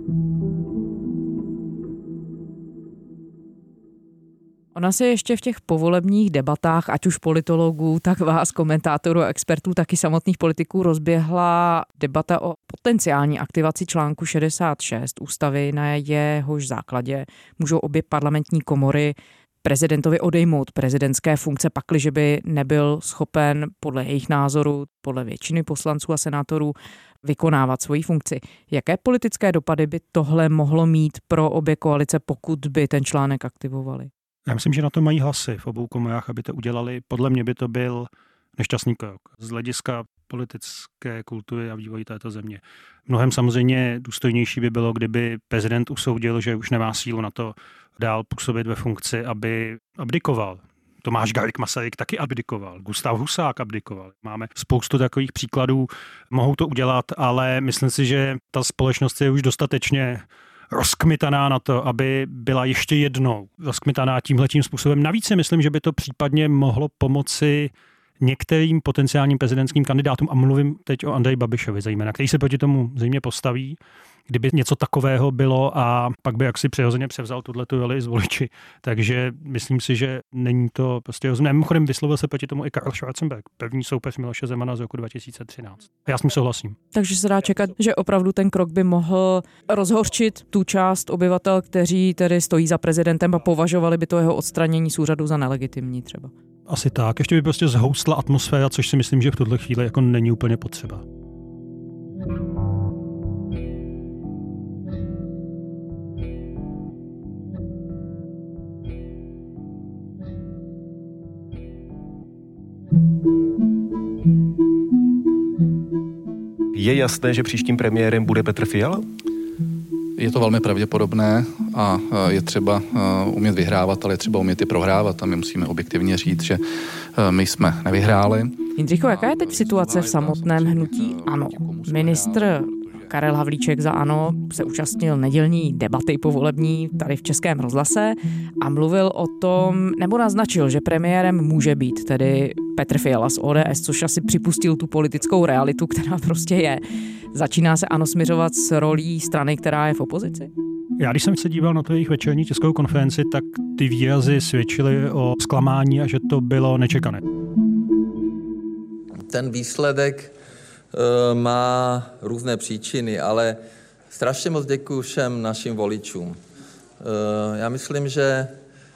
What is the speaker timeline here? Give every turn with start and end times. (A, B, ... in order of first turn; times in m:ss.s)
0:04.7-0:34.1 A
0:34.4-1:13.8 B
1:14.3-1:26.8 B
1:26.9-1:36.3 A
1:36.7-1:41.0 B
1:56.7-1:59.0 C
2:00.2-2:13.1 D
2:08.8-2:26.8 A
2:27.3-2:30.5 A
2:31.0-2:37.2 B
2:39.3-2:40.3 E
2:40.9-2:46.4 E
2:47.0-2:48.6 E